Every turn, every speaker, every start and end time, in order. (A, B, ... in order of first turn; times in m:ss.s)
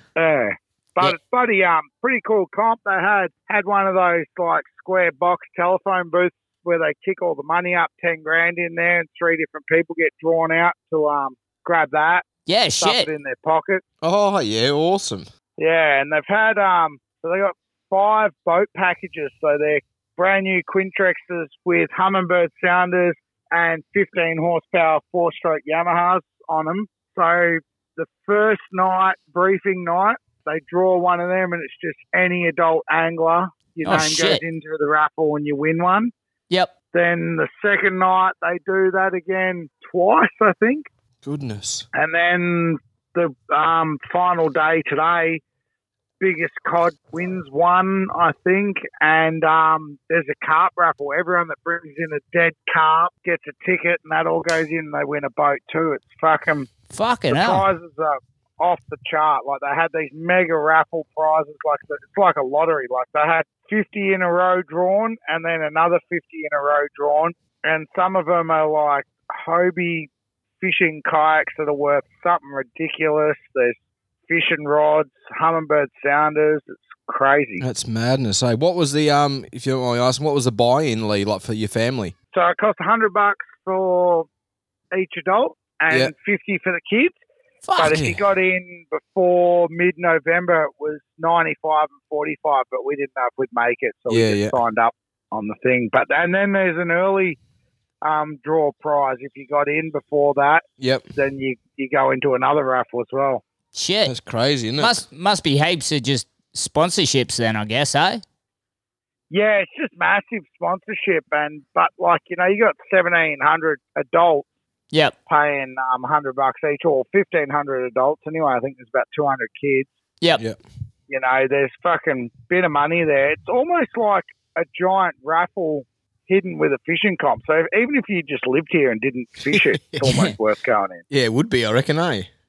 0:00.2-0:12.2 A
0:12.5-0:13.1 B
0:12.8-0:13.8 A
0:14.0-0:15.2 C
0:15.6-0:36.1 A
0:33.8-0:34.4 B
0:36.9-0:40.8 A
0:41.2-0:41.9 C
0:41.9-0:45.4 A
0:46.2-0:56.7 A
0:56.9-0:57.6 B
0:57.3-1:10.1 A
1:10.6-1:13.7 A
1:14.3-1:17.6 A
1:17.6-1:22.1 C
1:22.3-1:24.3 A
1:24.9-1:27.2 A
1:27.6-1:28.0 B
1:27.8-1:37.4 A
1:27.9-1:28.2 C
1:34.1-1:34.6 C
1:38.0-1:40.6 A
1:40.8-1:41.1 C
1:41.2-1:43.4 A
1:43.7-1:44.1 B
1:44.0-1:44.9 C
1:44.8-1:48.2 B
1:49.3-1:54.5 A
1:55.3-1:59.9 A
2:01.1-2:11.0 A
2:10.0-2:10.3 B
2:11.1-2:12.3 C